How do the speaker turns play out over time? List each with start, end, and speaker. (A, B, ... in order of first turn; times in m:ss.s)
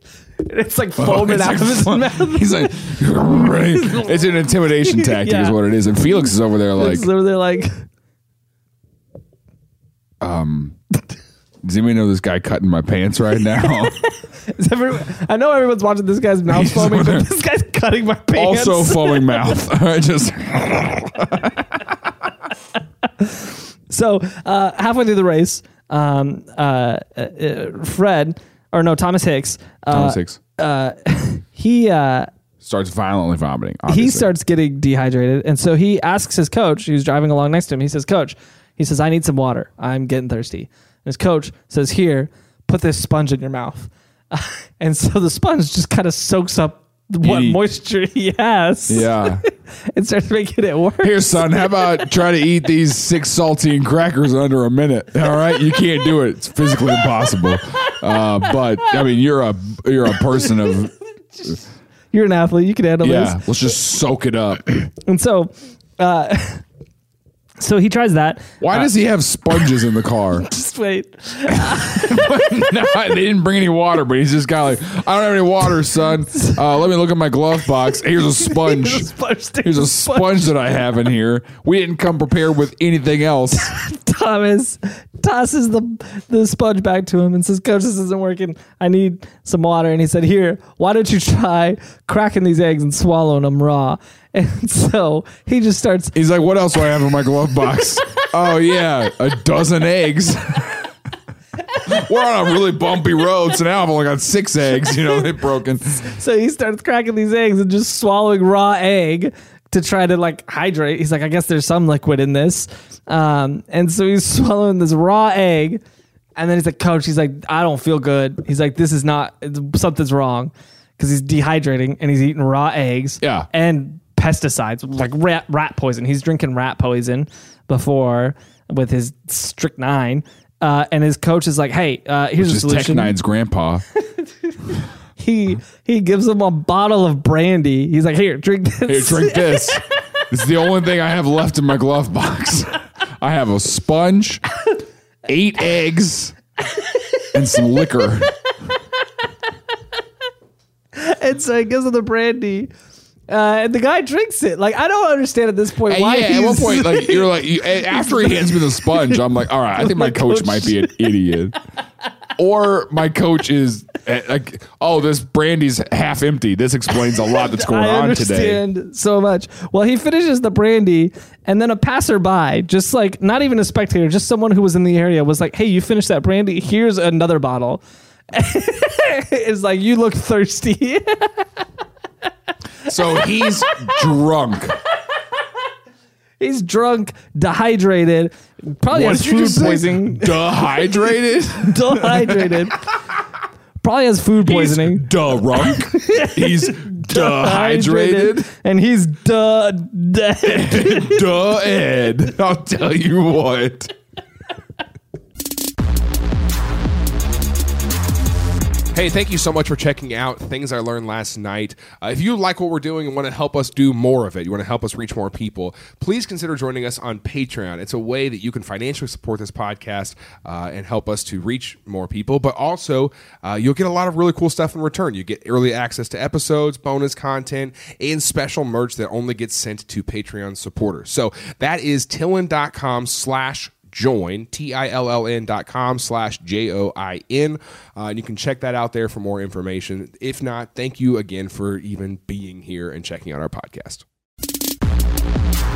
0:00.4-0:04.2 A
0:01.0-0:07.1 B
0:04.8-0:05.6 A
0:06.7-0:07.7 A
0:10.2-0:10.8 B
0:11.6-0:14.0 B
0:14.5-0:19.4 A
0:16.5-0:17.3 B
0:18.4-0:21.9 B
0:23.2-0:32.3 A
0:29.9-0:30.4 B
0:32.6-0:34.3 B
0:33.9-0:52.0 A
0:47.2-0:47.6 B
0:48.9-0:49.4 B
0:51.0-1:00.9 B
1:02.1-1:03.4 A
1:03.0-1:04.6 B
1:04.9-1:06.6 A
1:07.6-1:08.9 A
1:08.6-1:10.5 B
1:10.4-1:12.4 A
1:11.5-1:23.7 B
1:18.4-1:20.6 A
1:23.5-1:36.1 A
1:36.1-1:40.9 B
1:41.8-1:46.0 B
1:46.0-1:55.8 A
1:56.4-2:13.1 A
2:03.2-2:03.5 B
2:12.4-2:13.8 B
2:15.2-2:19.8 A
2:18.9-2:24.4 B
2:25.2-2:26.4 B
2:27.3-2:28.4 B
2:30.9-2:32.7 A
2:33.3-2:39.2 A
2:35.8-2:41.6 B
2:39.8-2:40.9 A
2:42.4-2:48.6 B
2:47.4-3:01.5 A
3:02.8-3:04.8 B
3:06.4-3:10.9 A
3:08.9-3:12.7 B
3:11.6-3:12.9 A
3:13.8-3:15.1 A
3:14.4-3:18.5 B
3:15.6-3:21.2 A
3:20.4-3:23.9 B
3:28.9-4:04.0 C